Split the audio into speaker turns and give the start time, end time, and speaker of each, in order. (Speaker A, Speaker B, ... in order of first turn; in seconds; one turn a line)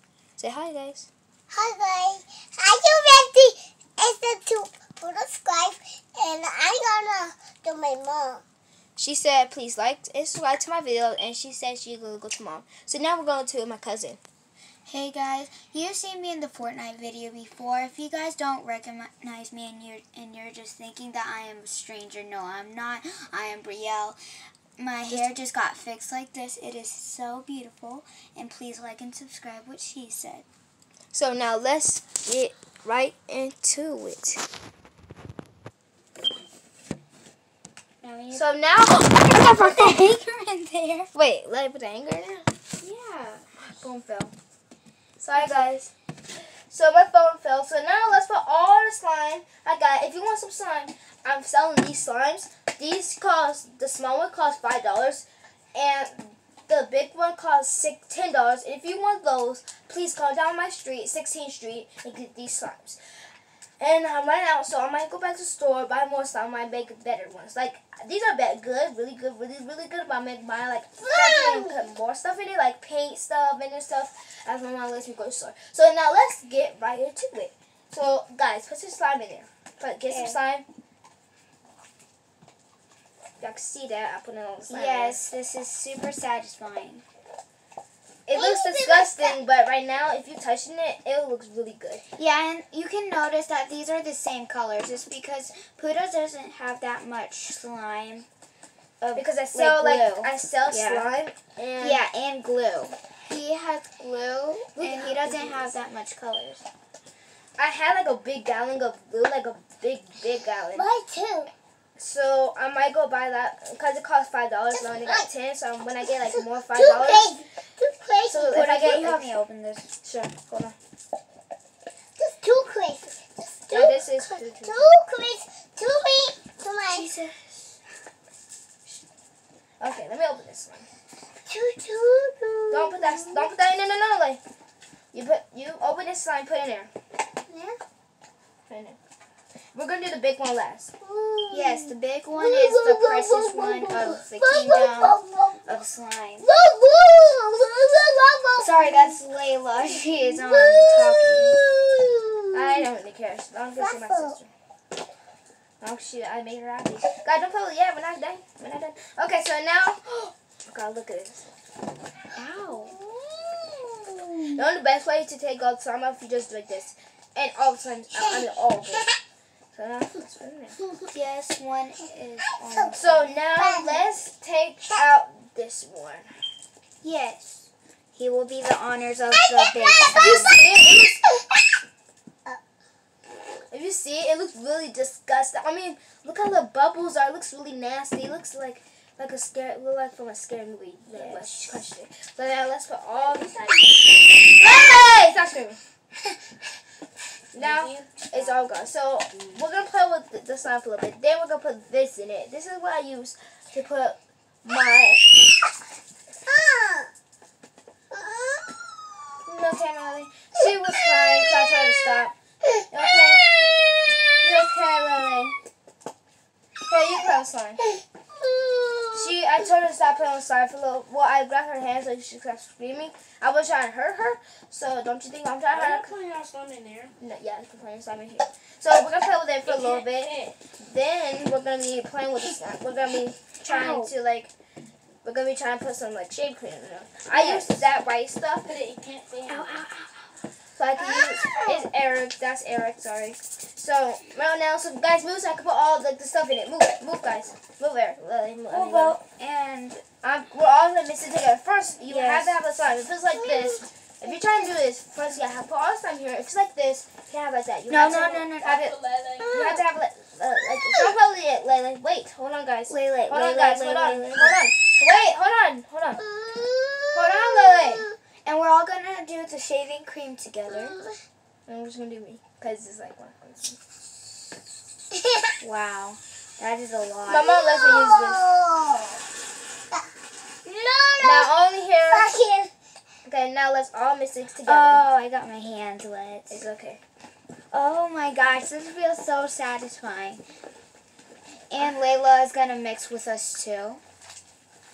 Speaker A: 0.4-1.1
Speaker B: 1.5-8.4
Speaker A: 9.0-14.2
Speaker C: 14.8-24.2
Speaker C: 24.8-30.4
Speaker A: 25.1-25.3
Speaker A: 31.1-34.4
Speaker C: 38.0-41.1
Speaker A: 38.3-40.0
Speaker A: 41.1-42.5
Speaker C: 42.8-43.5
Speaker A: 43.6-44.3
Speaker A: 45.2-45.9
Speaker C: 45.3-45.7
Speaker A: 46.7-63.0
Speaker A: 63.8-80.7
Speaker B: 71.0-71.9
Speaker C: 80.1-80.4
Speaker A: 83.4-85.2
Speaker C: 84.7-87.0
Speaker A: 88.3-92.0
Speaker B: 88.3-89.4
Speaker C: 92.2-98.3
Speaker C: 99.0-101.1
Speaker A: 99.1-102.0
Speaker C: 101.8-106.7
Speaker A: 104.7-105.7
Speaker A: 107.6-110.9
Speaker B: 110.7-111.5
Speaker A: 112.0-117.3
Speaker B: 114.7-115.3
Speaker B: 116.2-118.7
Speaker A: 118.2-119.3
Speaker C: 118.5-119.9
Speaker A: 120.0-120.7
Speaker B: 122.2-127.1
Speaker A: 123.7-124.9
Speaker C: 126.9-127.3
Speaker A: 129.8-130.9
Speaker B: 131.5-133.5
Speaker A: 132.7-134.4
Speaker A: 135.1-136.9
Speaker B: 137.5-137.8
Speaker A: 138.7-139.0
Speaker A: 139.7-140.9
Speaker B: 141.0-141.9
Speaker C: 141.5-146.5
Speaker B: 142.7-145.8
Speaker A: 143.9-144.2
Speaker B: 146.4-149.2
Speaker C: 148.6-151.6
Speaker B: 149.8-152.8
Speaker A: 152.5-154.5
Speaker B: 153.8-154.3
Speaker A: 155.8-161.4
Speaker C: 162.3-162.9
Speaker B: 162.7-164.5
Speaker A: 164.5-169.1
Speaker A: 169.7-170.8
Speaker C: 171.1-173.3
Speaker B: 172.5-173.0
Speaker A: 172.9-176.3
Speaker B: 173.5-174.1
Speaker C: 177.0-180.6
Speaker B: 179.3-181.6
Speaker A: 180.1-181.2
Speaker A: 183.7-195.8
Speaker C: 191.1-191.9
Speaker D: 197.5-198.2
Speaker A: 197.5-205.3
Speaker B: 206.4-207.1
Speaker B: 208.1-209.4
Speaker A: 209.4-212.3
Speaker B: 211.4-211.9
Speaker A: 212.9-213.5
Speaker B: 213.1-214.3
Speaker A: 214.4-215.6
Speaker A: 216.8-217.8
Speaker B: 218.3-219.3
Speaker A: 219.1-226.2
Speaker D: 225.7-227.1
Speaker A: 227.2-234.5
Speaker D: 229.6-230.6
Speaker C: 233.6-234.1
Speaker A: 235.2-238.6
Speaker C: 237.3-237.9
Speaker D: 238.6-239.8
Speaker C: 239.4-240.3
Speaker A: 240.8-249.2
Speaker C: 241.0-241.9
Speaker C: 248.7-250.0
Speaker A: 250.2-258.8
Speaker C: 252.0-252.6
Speaker B: 253.5-253.8
Speaker C: 257.9-259.0
Speaker D: 258.6-259.4
Speaker B: 259.4-259.8
Speaker A: 259.5-266.2
Speaker B: 260.8-261.1
Speaker C: 262.9-264.6
Speaker B: 266.2-268.1
Speaker A: 267.1-268.1
Speaker C: 268.4-270.9
Speaker B: 270.7-271.2
Speaker A: 271.7-273.8
Speaker B: 275.1-275.5
Speaker C: 275.6-277.5
Speaker A: 277.2-278.5
Speaker B: 277.4-279.2
Speaker B: 280.6-281.5
Speaker A: 281.2-282.3
Speaker B: 282.1-282.7
Speaker A: 283.2-285.0
Speaker C: 284.6-286.6
Speaker A: 286.5-287.0
Speaker C: 287.7-290.4
Speaker C: 291.7-294.0